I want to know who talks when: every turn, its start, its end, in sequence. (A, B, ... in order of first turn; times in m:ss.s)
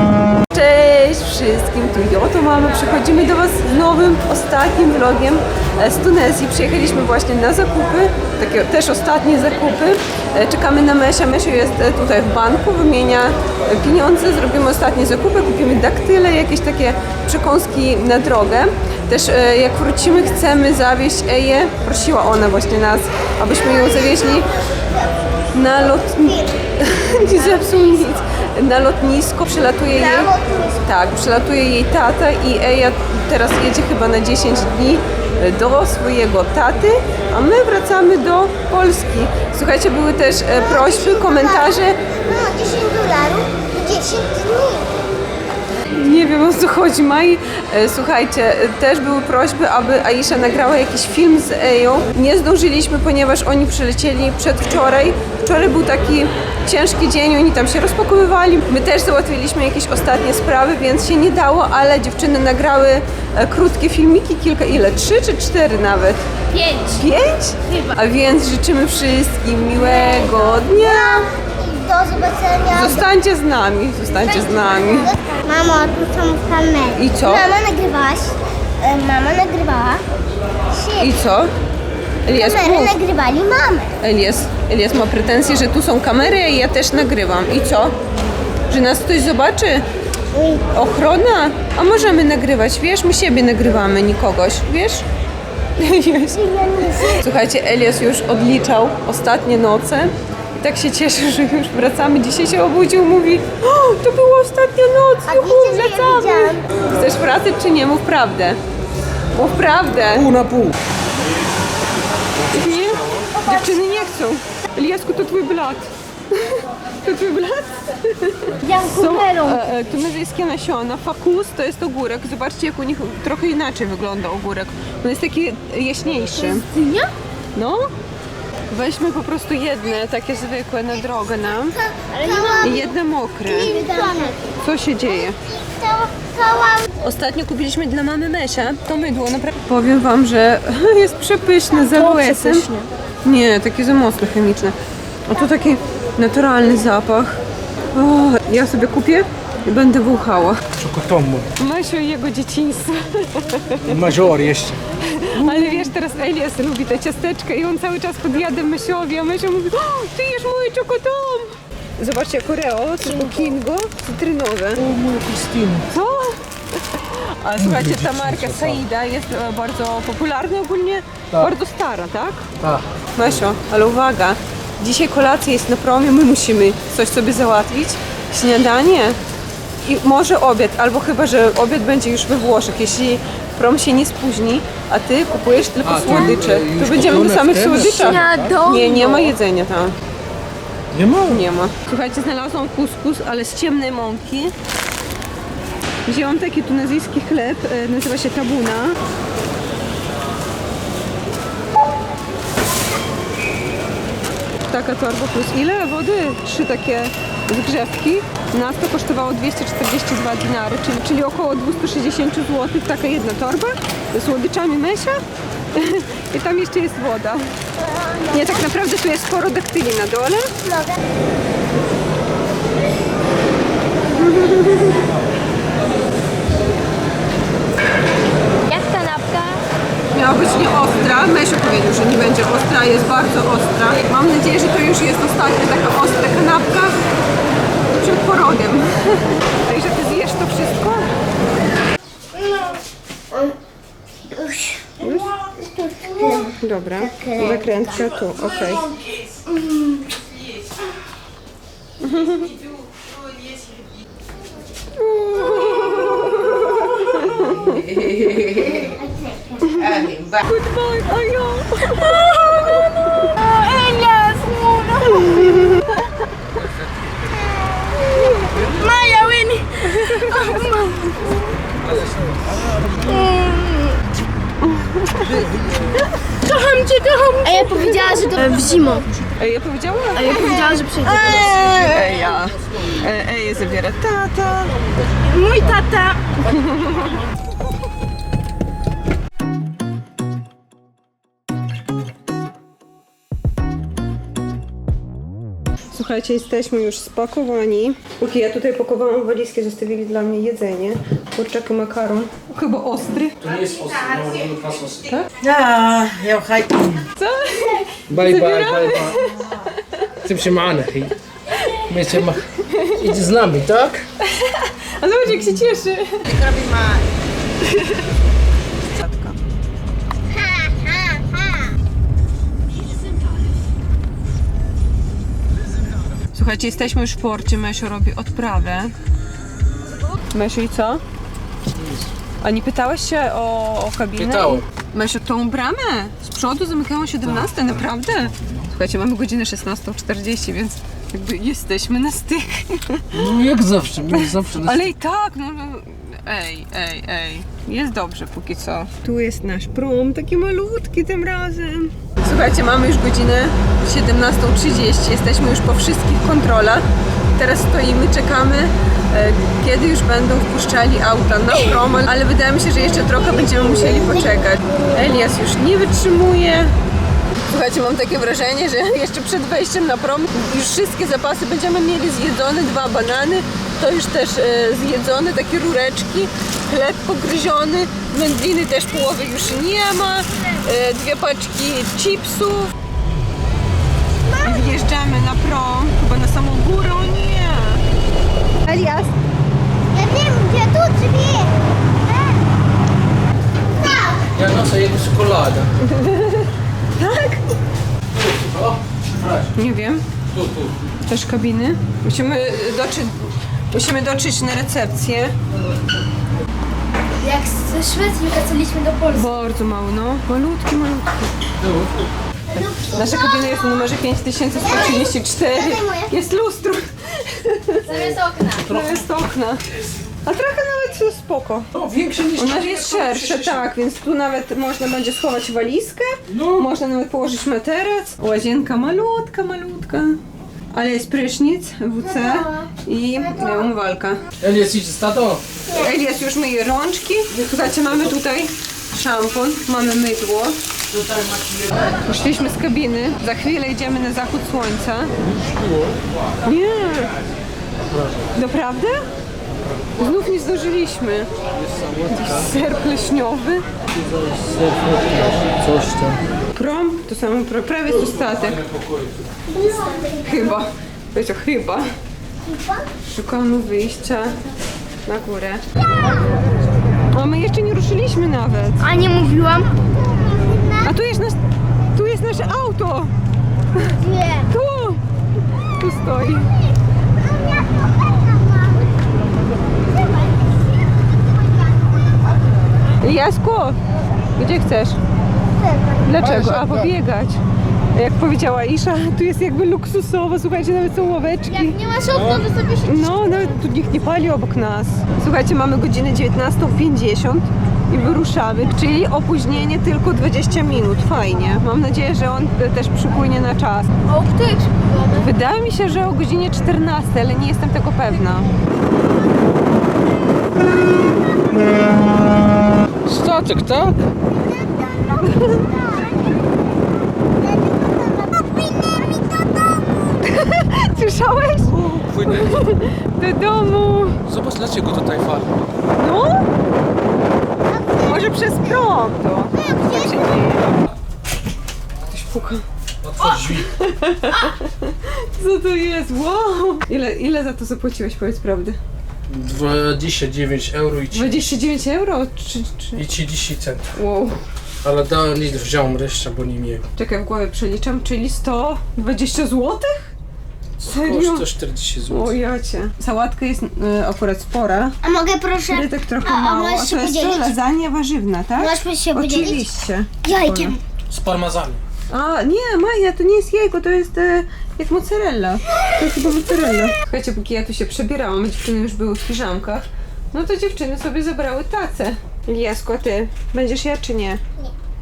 0:00.5-0:24.5 A
0:23.5-0:25.2 B
0:25.5-0:42.0 A
0:26.1-0:26.4 B
0:29.9-0:30.8 B
0:40.6-0:44.9 B
0:45.9-1:06.2 A
1:06.5-1:07.0 C
1:06.8-1:11.3 A
1:07.7-1:07.9 C
1:09.8-1:13.1 B
1:12.7-1:15.1 A
1:14.4-1:14.8 C
1:14.9-1:20.0 B
1:16.9-1:17.5 A
1:20.7-1:21.1 B
1:21.0-1:21.5 A
1:22.3-1:23.0 A
1:22.3-1:23.9 B
1:24.0-1:28.0 A
1:28.7-1:29.8 A
1:30.3-1:30.7 B
1:30.7-1:35.0 A
1:35.8-1:48.6 A
1:36.4-1:37.1 B
1:45.3-1:46.6 B
1:49.4-1:50.4 A
1:50.2-1:50.7 D
1:52.4-2:06.7 A
1:58.6-1:59.7 C
2:06.4-2:07.1 C
2:07.5-2:07.9 A
2:08.7-2:11.8 A
2:11.9-2:12.9 B
2:12.1-2:12.9 C
2:12.6-2:13.8 A
2:13.5-2:14.5 B
2:13.5-2:14.4 C
2:14.6-2:15.4 A
2:15.1-2:16.9 B
2:17.0-2:22.7 A
2:21.8-2:22.9 C
2:23.2-2:27.4 A
2:27.9-2:30.6 A
2:30.8-2:31.5 D
2:31.6-2:33.9 A
2:33.8-2:34.8 D
2:35.0-2:44.8 A
2:35.4-2:35.9 D
2:44.8-2:45.9 D
2:45.9-2:52.5 A
2:47.6-2:48.8 D
2:52.6-2:53.4 D
2:53.2-2:59.2 A
2:59.8-3:10.0 A
3:05.8-3:08.6 D
3:07.7-3:09.3 C
3:10.9-3:11.4 D
3:11.3-3:14.5 A
3:16.1-3:19.0 A
3:24.7-3:35.2 A
3:35.7-3:37.5 A
3:37.8-3:38.6 B
3:38.3-3:40.5 A
3:44.1-3:45.0 A
3:48.7-3:49.6 C
3:50.1-3:57.0 A
3:58.0-4:01.1 A
4:02.3-4:03.6 B
4:04.3-4:07.9 B
4:05.0-4:05.4 A
4:06.2-4:08.9 A
4:09.6-4:10.2 B
4:12.0-4:12.6 A
4:14.9-4:18.9 A
4:18.9-4:19.8 B
4:19.6-4:23.4 A
4:23.4-4:25.6 C
4:25.1-4:26.2 A
4:28.2-4:28.5 A
4:28.6-4:31.3 C
4:29.8-4:30.9 A
4:31.8-4:32.4 D
4:33.0-4:34.0 C
4:34.8-4:35.4 A
4:36.4-4:39.1 C
4:37.6-4:38.3 A
4:39.4-4:44.8 A
4:40.2-4:41.5 C
4:45.2-4:46.3 C
4:46.4-4:47.2 A
4:55.9-5:03.4 A
5:03.4-5:06.9 D
5:07.2-5:10.0 A
5:08.1-5:09.4 D
5:10.2-5:11.2 D
5:11.5-5:11.8 A
5:11.7-5:14.1 D
5:12.5-5:13.2 A
5:14.2-5:16.6 A
5:17.6-5:18.1 A
5:18.8-5:19.4 A
5:20.4-5:21.6 B
5:26.3-5:28.9 A
5:30.3-5:31.0 A
5:31.8-5:32.1 D
5:32.4-5:43.2 A
5:34.2-5:34.6 D
5:37.2-5:37.7 D
5:38.3-5:38.6 D
5:43.1-5:44.9 D
5:44.0-6:06.7 A
6:07.5-6:22.7 A
6:24.2-6:24.8 B
6:24.4-6:27.8 A
6:28.7-6:29.1 A
6:29.9-6:32.5 B
6:33.8-6:34.3 B
6:34.3-6:35.7 D
6:35.8-6:37.5 A
6:38.1-6:39.5 D
6:39.6-6:40.0 A
6:40.3-6:40.8 D
6:41.1-6:45.4 A
6:47.2-6:49.3 C
6:49.1-6:51.3 A
6:51.6-6:51.9 D
6:52.5-6:53.9 B
6:52.6-7:01.7 A
6:54.6-6:56.2 B
6:57.8-6:58.7 C
6:58.5-6:59.1 D
7:01.7-7:03.7 D
7:02.4-7:10.2 A
7:06.3-7:06.7 D
7:10.7-7:14.2 A
7:12.2-7:12.7 B
7:14.4-7:15.4 D
7:15.7-7:20.6 A
7:17.4-7:18.0 D
7:21.1-7:21.6 D
7:22.0-7:25.1 A
7:25.4-7:26.0 D
7:26.4-7:27.1 A
7:27.9-7:28.3 D
7:28.3-7:29.1 A
7:30.0-7:31.3 A
7:31.6-7:32.6 D
7:32.1-7:33.6 A
7:34.0-7:36.2 D
7:36.5-7:38.6 A
7:39.5-7:40.4 B
7:40.2-7:41.9 A
7:42.4-7:42.8 B
7:43.0-7:44.4 A
7:45.1-7:45.6 A
7:47.1-7:48.9 A
7:48.8-7:49.8 C
7:49.8-7:50.9 B
7:50.8-7:51.4 A
7:51.9-7:53.1 A
7:53.8-7:54.5 B
7:54.4-7:55.0 A
7:55.8-7:56.6 A
7:57.2-7:58.8 B
7:59.8-8:02.2 B
8:03.0-8:03.8 A
8:04.4-8:05.0 A
8:05.6-8:06.0 B
8:06.0-8:07.4 A
8:06.2-8:06.9 D
8:07.9-8:11.8 A
8:11.5-8:13.5 C
8:12.1-8:12.5 D
8:12.8-8:23.9 A
8:24.0-8:25.3 C
8:25.1-8:28.5 A
8:33.0-8:34.0 D
8:34.5-8:36.4 B
8:35.2-8:35.7 A
8:37.4-8:40.3 B
8:40.2-8:44.2 A
8:41.7-8:42.6 D
8:44.3-8:45.6 D
8:45.9-8:46.4 A
8:47.6-8:48.6 B
8:48.0-8:50.8 A
8:49.6-8:50.3 B
8:52.1-8:52.6 A
8:53.0-8:53.7 D
8:53.2-8:58.8 A
8:59.3-9:01.7 D
9:01.1-9:03.0 A
9:03.0-9:03.9 D
9:03.9-9:04.4 A
9:04.8-9:06.9 D
9:07.0-9:10.1 A
9:10.8-9:12.4 D
9:10.8-9:11.5 A
9:12.1-9:15.0 A
9:15.0-9:17.6 B
9:15.7-9:20.8 A
9:18.6-9:19.7 B
9:20.2-9:20.8 B
9:21.1-9:21.8 D
9:22.1-9:34.4 A